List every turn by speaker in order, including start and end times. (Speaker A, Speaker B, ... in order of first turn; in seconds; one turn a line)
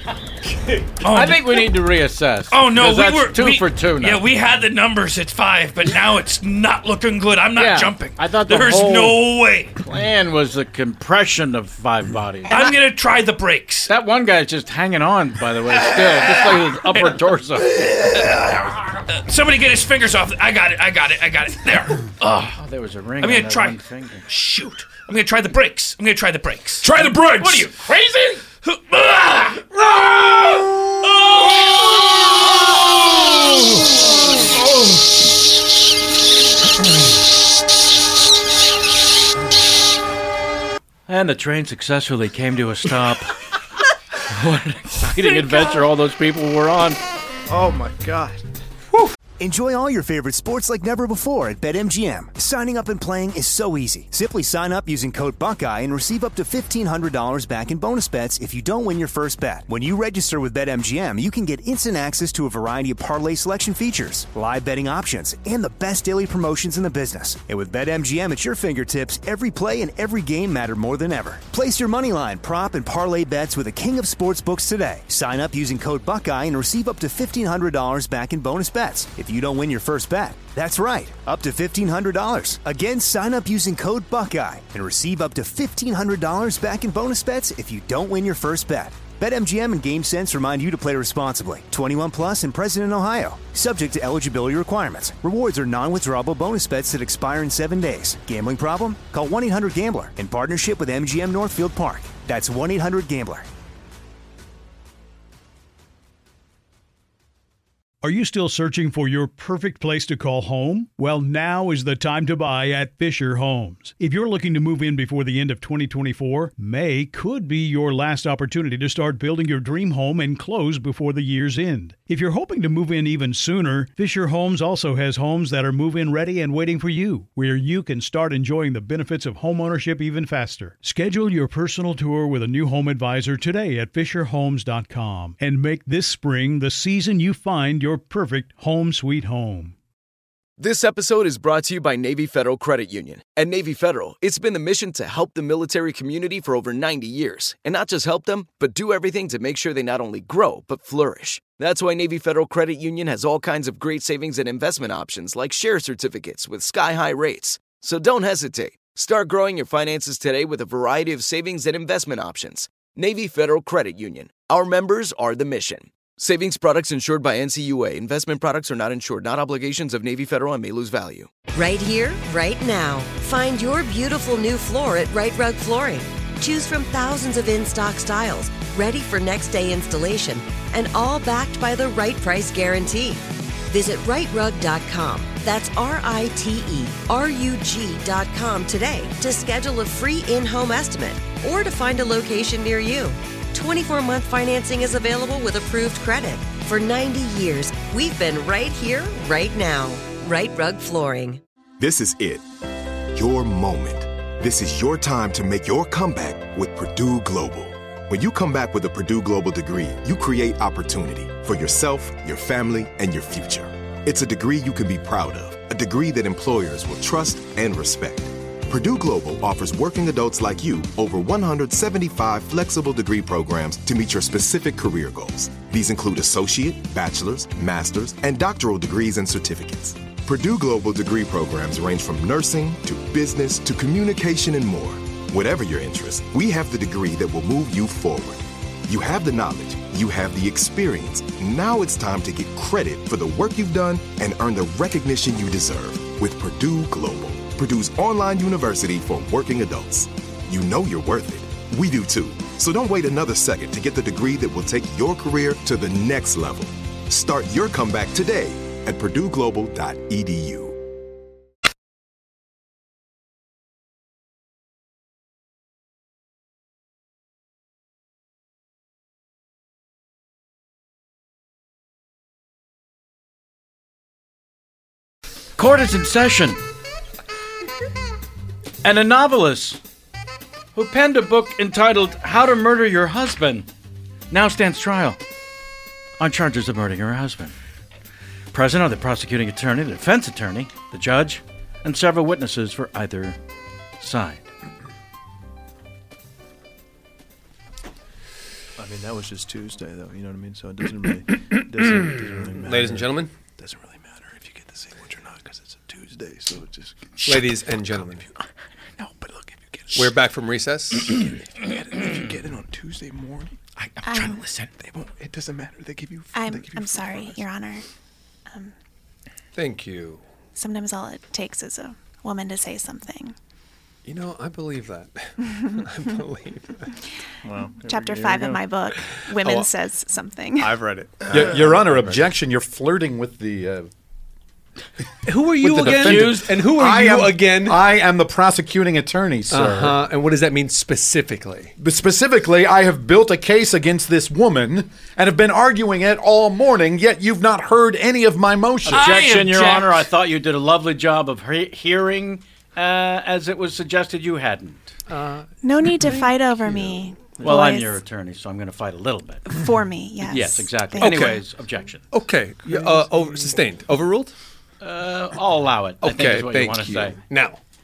Speaker A: 0.5-0.9
Speaker B: 1.0-1.7
Speaker C: 1.1-4.2
Speaker B: 2.5-9.8
Speaker C: 7.6-9.2
Speaker C: 9.8-12.7
Speaker B: 12.5-13.9
Speaker C: 13.9-18.0
Speaker B: 15.9-16.4
Speaker B: 17.8-22.6
Speaker C: 22.3-24.2
Speaker B: 23.2-27.6
Speaker C: 27.4-28.4
Speaker B: 28.6-30.5
Speaker B: 31.5-32.2
Speaker C: 41.1-43.4
Speaker C: 44.3-47.0
Speaker D: 47.5-48.4
Speaker E: 49.4-103.5
Speaker F: 108.0-139.8
Speaker G: 140.6-171.3
Speaker H: 171.5-201.4
Speaker I: 201.8-202.4
Speaker I: 203.1-260.8
Speaker C: 275.6-276.6
Speaker C: 278.8-279.8
Speaker C: 280.8-283.7
Speaker C: 284.3-285.2
Speaker C: 286.2-287.6
Speaker C: 288.5-293.4
Speaker C: 294.0-294.5
Speaker D: 298.8-308.5
Speaker A: 302.0-303.3
Speaker A: 307.2-308.3
Speaker D: 309.0-310.1
Speaker A: 309.9-311.3
Speaker D: 311.2-313.6
Speaker B: 313.8-314.7
Speaker J: 314.1-314.4
Speaker D: 314.8-317.5
Speaker J: 316.3-317.8
Speaker A: 319.6-320.2
Speaker J: 320.6-323.4
Speaker A: 324.1-326.8
Speaker C: 327.5-328.4
Speaker J: 327.8-330.8
Speaker A: 329.4-329.7
Speaker A: 330.6-332.3
Speaker K: 331.3-333.9
Speaker A: 335.3-337.8
Speaker K: 335.4-340.0
Speaker C: 335.9-336.5
Speaker A: 339.5-341.7
Speaker K: 341.8-349.1
Speaker C: 348.9-354.9
Speaker B: 348.9-350.1
Speaker A: 355.1-355.5
Speaker J: 355.6-358.0
Speaker A: 356.0-356.7
Speaker C: 357.4-359.4
Speaker J: 359.5-361.3
Speaker C: 360.3-362.1
Speaker A: 361.0-361.4
Speaker A: 362.1-364.3
Speaker D: 362.7-363.5
Speaker C: 364.8-367.2
Speaker A: 366.0-367.6